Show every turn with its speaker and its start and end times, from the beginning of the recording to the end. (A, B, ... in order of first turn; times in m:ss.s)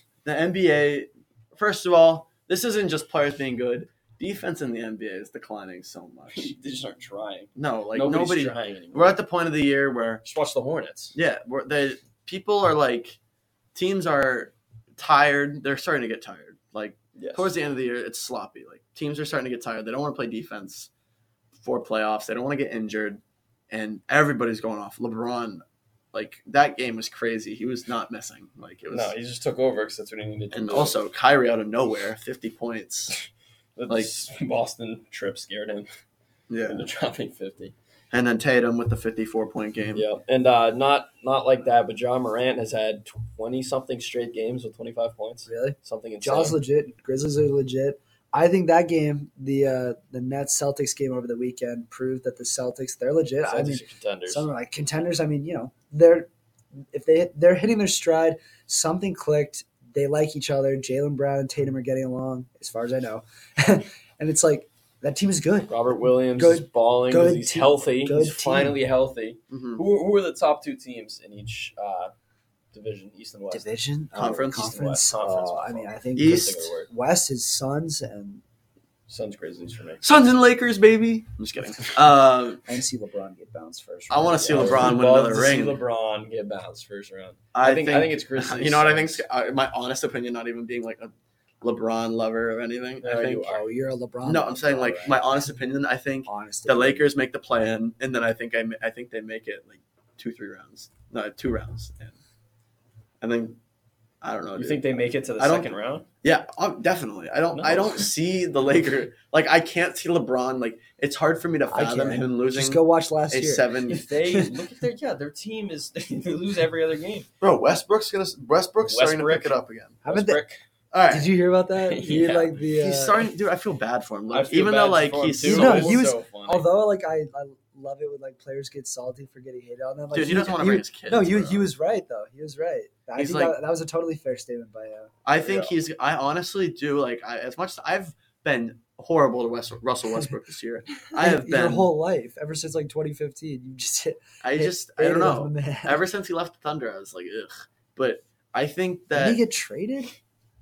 0:00.2-0:06.5 A
0:06.3-0:09.2 B
0:07.6-0:10.2 A
0:10.2-0:11.2 B
0:11.1-0:13.2 A
0:13.7-0:20.9 A
0:17.2-0:17.5 B
0:21.6-0:29.1 A
0:28.9-0:31.0 B
0:30.5-0:33.1 A
0:33.8-0:35.9 B
0:36.5-0:36.9 A
0:36.6-0:37.7 B
0:38.1-0:40.0 A
0:39.9-0:46.6 B
0:45.5-0:56.3 C
0:53.4-0:54.5 B
0:56.9-1:05.7 C
1:05.7-1:12.1 B
1:06.4-1:08.8 C
1:09.5-1:09.8 A
1:12.7-1:13.7 B
1:13.5-1:18.4 C
1:14.1-1:14.7 A
1:14.5-1:16.9 B
1:16.2-1:16.6 A
1:19.1-1:20.0 B
1:20.0-1:22.6 A
1:22.6-1:25.0 C
1:24.1-1:25.8 A
1:24.4-1:29.2 B
1:27.5-1:31.1 A
1:31.6-1:33.6 A
1:33.0-1:33.6 B
1:33.4-1:35.6 C
1:34.2-1:42.2 A
1:36.2-1:37.1 C
1:43.2-1:43.6 A
1:44.2-1:54.1 A
1:44.6-1:46.0 B
1:47.5-1:48.1 B
1:51.7-1:53.7 C
1:53.9-1:57.3 B
1:57.4-2:00.0 A
1:58.8-2:00.6 B
2:00.0-2:00.4 C
2:00.9-2:01.3 A
2:01.1-2:03.2 C
2:01.8-2:02.6 B
2:02.7-2:06.0 A
2:04.3-2:06.7 B
2:05.4-2:15.1 C
2:10.1-2:11.7 A
2:13.2-2:13.6 A
2:15.2-2:21.9 A
2:15.4-2:15.7 B
2:21.1-2:26.0 C
2:24.4-2:29.4 A
2:29.1-2:30.1 C